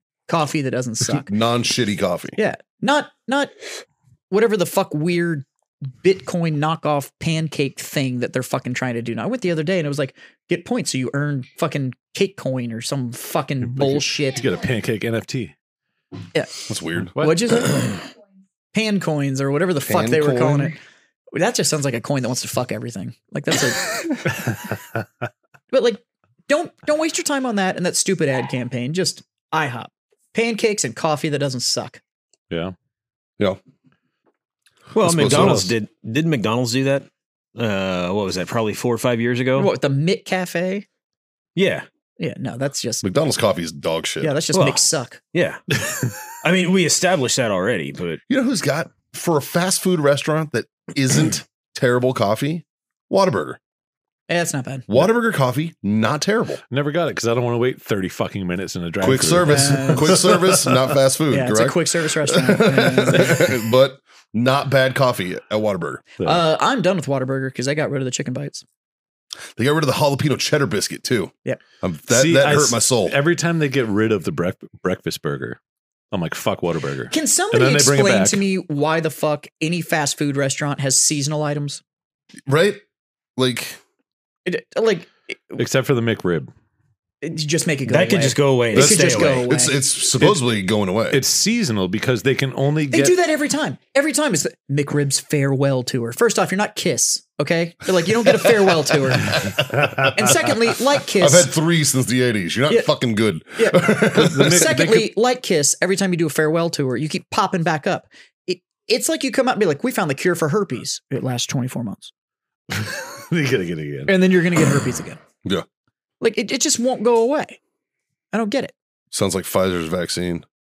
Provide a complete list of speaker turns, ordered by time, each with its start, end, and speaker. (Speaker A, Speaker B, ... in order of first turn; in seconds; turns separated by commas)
Speaker A: 0.3-1.4, Speaker B: 1.2-2.4, Speaker A: 2.4-3.5, Speaker A: 4.3-5.5, Speaker A: 6.0-14.4, Speaker C: 13.7-15.5, Speaker A: 16.4-18.1, Speaker B: 16.7-17.1, Speaker C: 17.1-17.5, Speaker A: 18.7-20.8, Speaker B: 19.9-20.7, Speaker A: 21.3-24.2, Speaker A: 25.7-32.0, Speaker D: 34.9-39.7, Speaker B: 35.0-35.7, Speaker C: 35.2-35.7, Speaker A: 39.6-40.9, Speaker D: 41.6-41.9, Speaker A: 42.2-43.1, Speaker B: 43.0-44.4, Speaker A: 44.2-45.2, Speaker D: 44.5-45.6, Speaker D: 46.3-48.2, Speaker B: 48.3-53.6, Speaker A: 54.3-54.9, Speaker B: 54.9-56.6, Speaker C: 56.7-60.1, Speaker B: 59.0-66.0, Speaker A: 59.5-60.3, Speaker A: 61.3-63.6, Speaker A: 66.2-68.7, Speaker B: 69.6-73.2, Speaker C: 72.1-75.6, Speaker C: 76.1-78.4, Speaker A: 77.1-81.8, Speaker B: 82.5-82.8, Speaker B: 83.4-83.8, Speaker A: 84.5-85.6, Speaker C: 85.6-86.5, Speaker A: 87.2-89.8, Speaker D: 87.9-89.5, Speaker B: 88.7-91.2, Speaker C: 91.1-93.2, Speaker A: 92.9-101.5, Speaker B: 99.5-100.3, Speaker B: 101.2-104.8, Speaker A: 103.6-112.1, Speaker C: 104.1-105.1, Speaker C: 112.7-114.2, Speaker A: 114.1-115.2, Speaker A: 116.2-117.6, Speaker A: 118.3-118.8, Speaker B: 119.1-120.5